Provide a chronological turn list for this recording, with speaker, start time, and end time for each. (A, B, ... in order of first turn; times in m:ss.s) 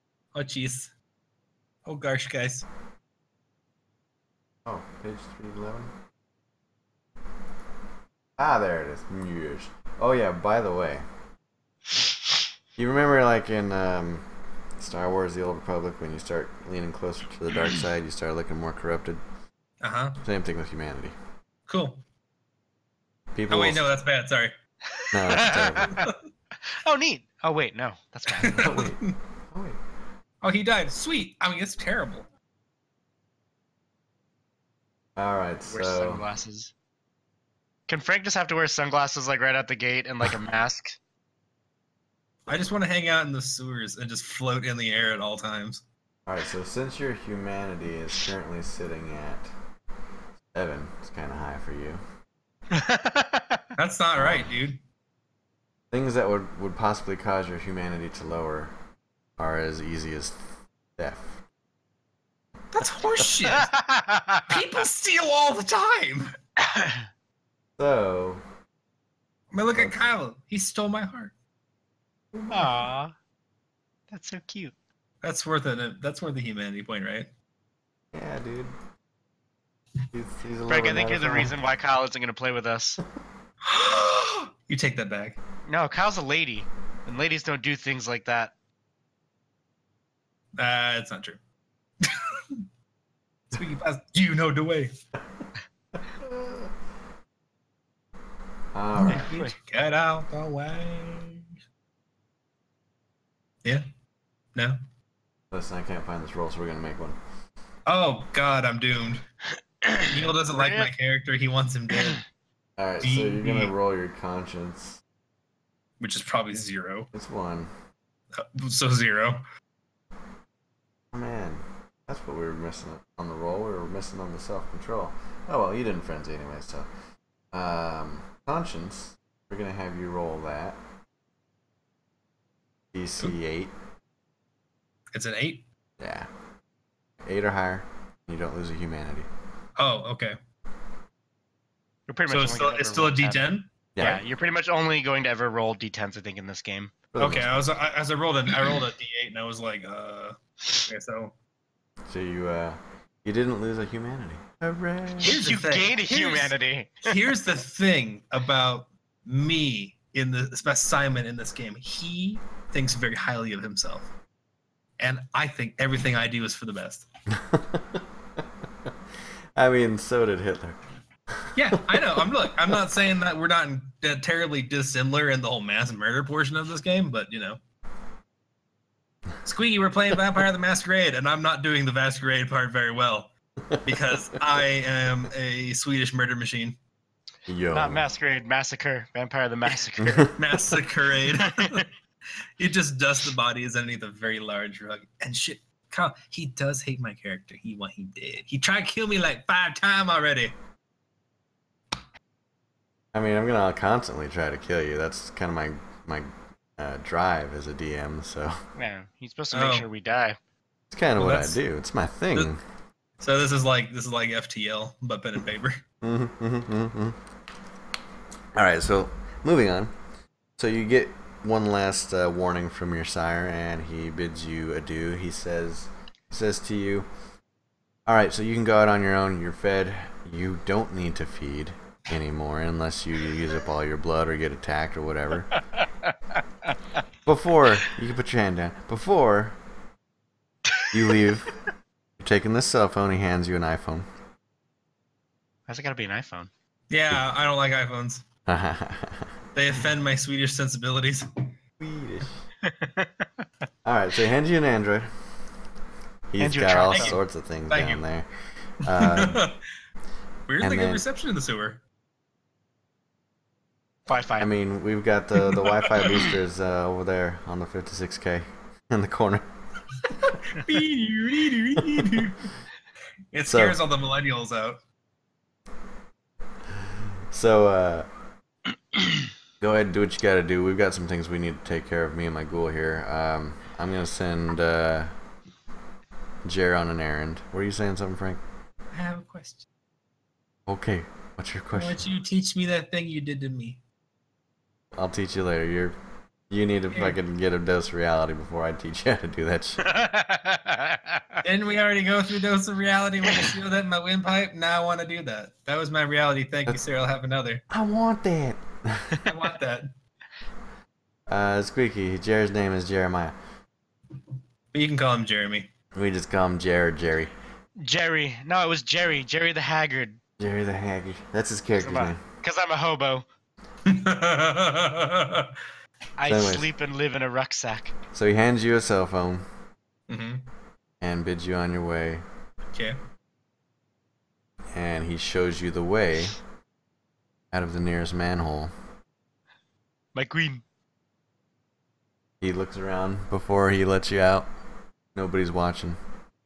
0:00.3-0:00.9 A
0:01.9-0:02.7 A
0:04.6-0:05.9 B
0:08.4-0:11.0 B
0:12.8-0:14.3 B
0:14.8-0:19.2 B
0:19.8-0:20.2 A
0:20.2-0:21.2 B
0:21.7-0:22.0 A
0:23.3-0:23.9 B
0:23.5-0:24.5 A
0:25.0-0:26.1 C
0:25.1-0:26.0 B
0:26.8-0:28.7 C
0:28.3-0:29.2 A
0:28.4-0:29.8 B
0:30.4-0:32.3 A
0:35.2-0:36.2 B
0:35.7-0:36.7 C
0:37.9-0:41.0 C
0:42.5-0:45.8 A
0:46.3-0:49.5 B
0:50.5-0:52.0 B
0:52.7-0:53.6 C
0:53.8-0:54.8 A
0:54.2-0:54.5 B
0:55.9-0:58.7 B
0:59.4-1:01.4 B
1:02.7-1:03.7 A
1:03.5-1:04.6 C
1:04.5-1:06.3 A
1:06.6-1:07.1 C
1:07.8-1:08.4 B
1:09.5-1:11.3 A
1:12.3-1:12.8 B
1:12.5-1:13.1 C
1:14.1-1:14.8 C
1:15.2-1:17.3 A
1:18.1-1:18.7 B
1:20.1-1:21.5 B
1:20.7-1:23.0 C
1:23.6-1:25.4 A
1:25.7-1:28.5 C
1:30.6-1:31.4 A
1:32.0-1:32.6 A
1:33.5-1:34.9 A
1:36.1-1:36.7 B
1:38.7-1:39.3 B
1:39.0-1:41.5 A
1:39.0-1:39.6 C
1:45.5-1:47.2 B
1:47.9-1:49.2 A
1:49.8-1:50.9 C
1:50.0-1:52.2 A
1:52.8-1:55.0 B
1:53.0-1:53.7 A
1:56.0-1:57.1 A
1:57.1-1:57.7 B
1:58.3-1:59.4 A
2:01.1-2:06.9 B
2:07.5-2:10.8 B
2:12.9-2:13.7 B
2:15.1-2:15.7 A
2:16.0-2:16.3 B
2:17.2-2:19.3 B
2:19.8-2:20.4 A
2:22.1-2:26.9 C
2:22.3-2:23.7 A
2:24.0-2:24.2 B
2:27.1-2:27.7 B
2:27.2-2:31.4 A
2:32.1-2:35.4 B
2:35.2-2:44.1 A
2:35.2-2:37.2 C
2:45.0-2:47.1 A
2:47.3-2:48.9 B
2:49.6-2:52.3 B
2:51.6-2:57.6 A
2:59.4-3:03.3 A
3:03.8-3:06.8 A
3:07.5-3:08.0 B
3:07.7-3:10.3 C
3:10.0-3:10.8 B
3:10.4-3:11.9 A
3:11.4-3:11.8 C
3:12.6-3:20.6 A
3:23.1-3:28.6 B
3:28.8-3:30.4 C
3:29.5-3:29.9 A
3:30.9-3:32.6 B
3:31.2-3:31.6 A
3:33.2-3:35.8 A
3:36.0-3:37.2 B
3:38.5-3:39.9 B
3:40.6-3:47.1 B
3:48.1-3:55.6 B
3:55.8-3:56.4 C
3:57.2-3:59.6 B
4:00.9-4:01.6 B
4:02.2-4:04.1 B
4:05.7-4:06.5 C
4:06.9-4:08.2 A
4:08.5-4:09.3 B
4:09.6-4:11.3 A
4:11.8-4:12.4 B
4:12.6-4:13.4 C
4:13.8-4:15.1 B
4:16.3-4:18.3 B
4:16.4-4:17.2 C
4:16.9-4:17.2 A
4:17.7-4:18.0 A
4:18.8-4:19.5 B
4:18.9-4:19.6 A
4:20.5-4:21.8 A
4:20.6-4:21.0 B
4:24.1-4:24.5 C
4:24.4-4:29.5 B
4:25.6-4:26.1 A
4:30.1-4:32.5 A
4:31.8-4:32.3 B
4:33.3-4:34.8 A
4:33.5-4:33.8 B
4:36.8-4:38.1 B
4:39.6-4:45.1 B
4:46.4-4:48.4 B
4:48.9-4:49.7 A
4:50.7-4:52.0 B
4:51.7-4:53.8 A
4:54.9-4:56.0 B
4:56.5-4:59.8 B
4:56.9-4:57.2 A
4:59.8-5:01.4 C
5:01.4-5:07.6 A
5:07.7-5:09.2 B
5:09.2-5:09.9 A
5:11.3-5:13.4 B
5:14.7-5:15.7 A
5:16.0-5:17.3 B
5:17.8-5:20.2 C
5:20.4-5:22.2 B
5:21.8-5:23.3 C
5:23.9-5:25.5 A
5:26.2-5:27.9 C
5:26.3-5:26.7 B
5:28.1-5:29.5 B
5:30.1-5:30.5 A
5:31.0-5:32.2 B
5:32.7-5:33.0 A
5:34.7-5:36.4 B
5:37.5-5:38.7 B
5:40.2-5:40.6 C
5:42.4-5:44.5 B
5:45.2-5:46.0 B